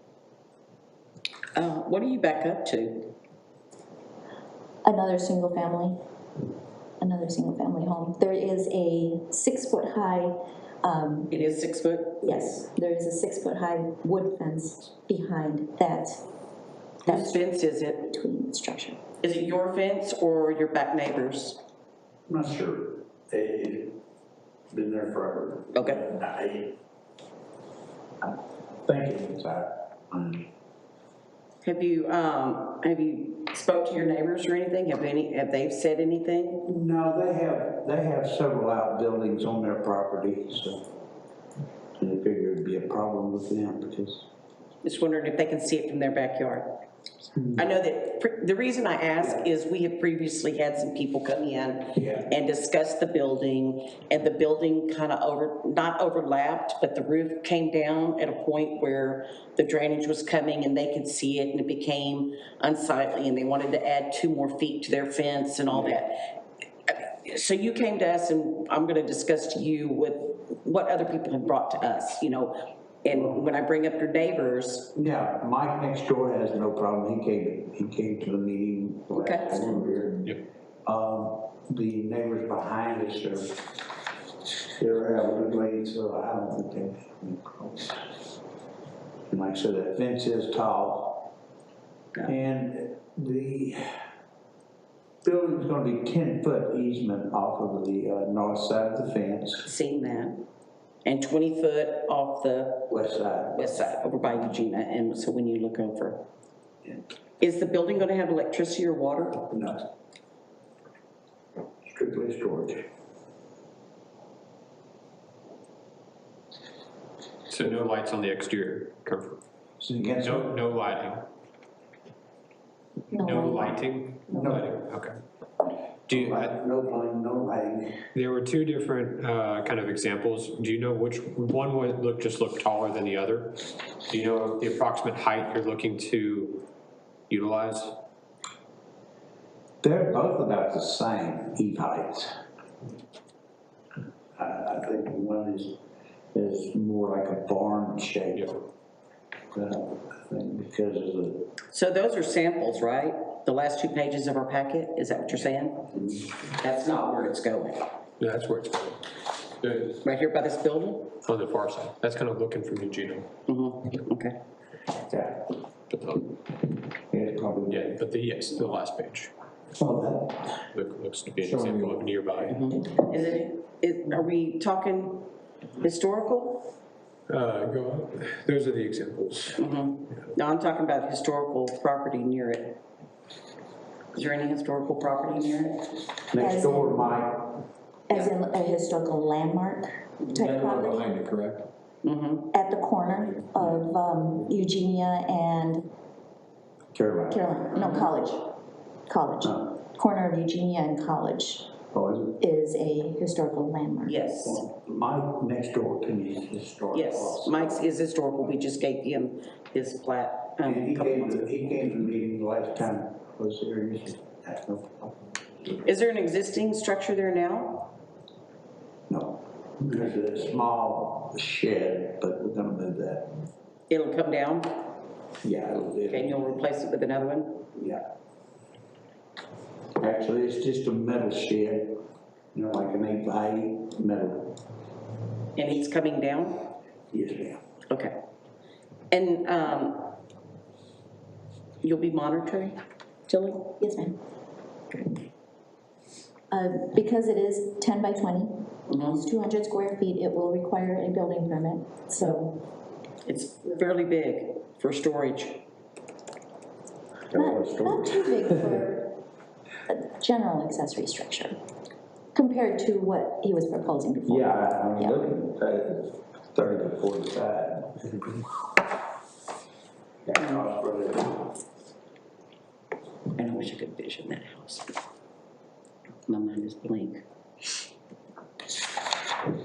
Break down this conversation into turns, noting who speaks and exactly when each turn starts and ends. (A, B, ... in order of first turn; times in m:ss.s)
0:01.6-0:03.1 A
0:04.8-0:06.0 B
0:07.0-0:11.3 B
0:11.3-0:12.3 A
0:12.2-0:16.2 B
0:17.0-0:17.4 B
0:17.0-0:18.1 A
0:18.0-0:19.0 B
0:19.2-0:21.6 A
0:22.3-0:24.0 C
0:24.7-0:26.7 C
0:25.7-0:26.0 A
0:28.2-0:30.4 C
0:31.6-0:36.7 A
0:36.6-0:40.8 C
0:42.0-0:44.2 C
0:44.8-0:46.7 A
0:47.3-0:47.6 C
0:47.6-1:06.3 A
0:52.0-0:52.2 C
1:06.8-1:14.9 A
1:14.9-1:20.3 C
1:19.1-1:19.8 A
1:20.8-1:23.5 C
1:24.8-1:28.0 C
1:29.3-1:31.3 C
1:32.2-1:33.9 C
1:35.2-1:39.7 C
1:39.6-1:40.5 A
1:41.0-1:42.9 A
1:42.9-1:43.8 C
1:43.5-1:46.2 A
1:47.4-1:49.4 A
1:49.5-1:49.9 C
1:51.8-1:52.8 C
1:57.5-1:59.4 D
1:59.8-2:00.6 C
2:00.4-2:01.3 D
2:03.1-2:03.8 B
2:03.2-2:05.2 D
2:04.3-2:04.8 C
2:06.1-2:08.0 C
2:06.2-2:06.5 D
2:08.1-2:16.6 D
2:17.3-2:18.0 D
2:19.8-2:22.3 C
2:24.4-2:25.8 C
2:26.3-2:28.6 C
2:29.5-2:31.5 C
2:31.7-2:35.9 A
2:35.9-2:36.3 C
2:36.5-2:37.9 A
2:38.2-2:39.0 D
2:39.6-2:39.9 D
2:40.0-2:41.2 A
2:41.2-2:43.3 D
2:43.5-2:44.4 A
2:45.0-2:45.5 C
2:45.9-2:46.3 D
2:47.1-2:48.0 C
2:47.7-2:49.3 D
2:49.8-2:50.5 C
2:50.7-2:52.6 D
2:52.5-2:55.3 A
2:55.8-2:56.7 A
2:57.3-2:59.6 D
2:59.6-3:02.8 A
3:04.1-3:06.0 A
3:06.3-3:07.6 C
3:06.4-3:07.1 B
3:08.1-3:11.2 B
3:10.3-3:11.7 D
3:12.0-3:12.5 A
3:12.5-3:15.9 B
3:16.9-3:17.4 C
3:17.3-3:18.6 B
3:17.7-3:18.1 A
3:19.1-3:21.7 B
3:21.9-3:22.4 C
3:22.4-3:24.2 B
3:24.0-3:24.6 A
3:24.4-3:27.7 C
3:26.9-3:31.9 A
3:30.6-3:35.1 C
3:35.8-3:37.9 A
3:39.1-3:43.3 C
3:43.9-3:44.9 A
3:45.4-3:46.6 C
3:46.1-3:47.7 A
3:47.7-3:48.0 C
3:50.0-3:52.0 C
3:52.5-3:54.6 C
3:55.6-3:56.7 A
3:57.1-3:57.6 C
3:57.9-3:58.1 A
3:59.1-4:00.2 A
4:01.8-4:02.8 A
4:03.3-4:03.8 A
4:03.8-4:04.2 B
4:06.5-4:12.6 B
4:08.9-4:09.2 A
4:13.2-4:15.6 A
4:17.3-4:18.8 C
4:17.3-4:19.1 B
4:19.9-4:21.5 B
4:22.3-4:25.2 B
4:24.3-4:28.4 C
4:30.2-4:31.5 C
4:33.4-4:35.0 A
4:36.3-4:37.2 A